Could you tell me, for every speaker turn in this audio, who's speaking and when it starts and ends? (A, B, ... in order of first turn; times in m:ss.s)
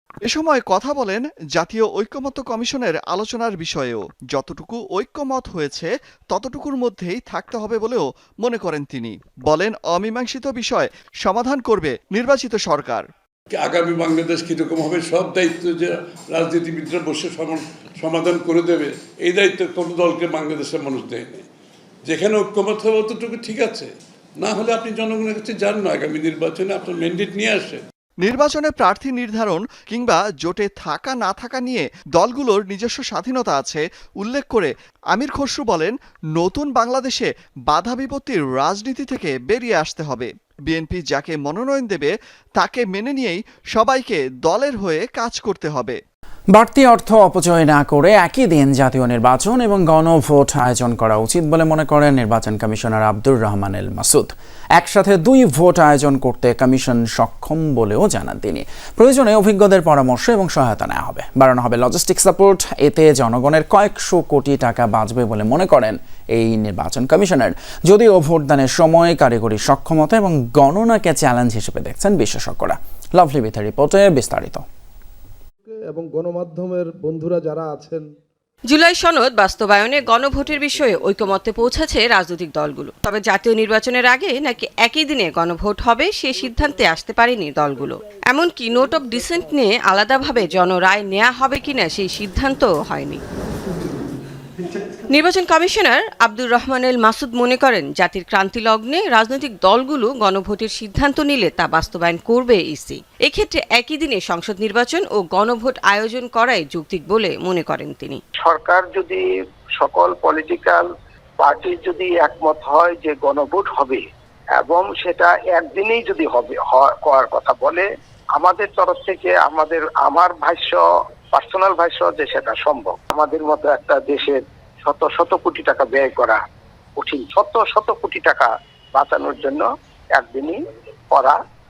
0:00.2-0:13.1 A
0:13.5-0:21.5 B
0:22.0-0:27.8 B
0:28.2-0:46.0 A
0:46.6-0:54.3 C
0:54.8-1:14.6 C
1:15.7-1:18.0 D
1:18.7-1:33.2 E
1:35.1-1:48.2 E
1:48.4-1:49.2 F
1:49.8-1:50.9 F
1:51.4-1:54.0 F
1:54.6-2:06.4 F
2:07.0-2:11.4 F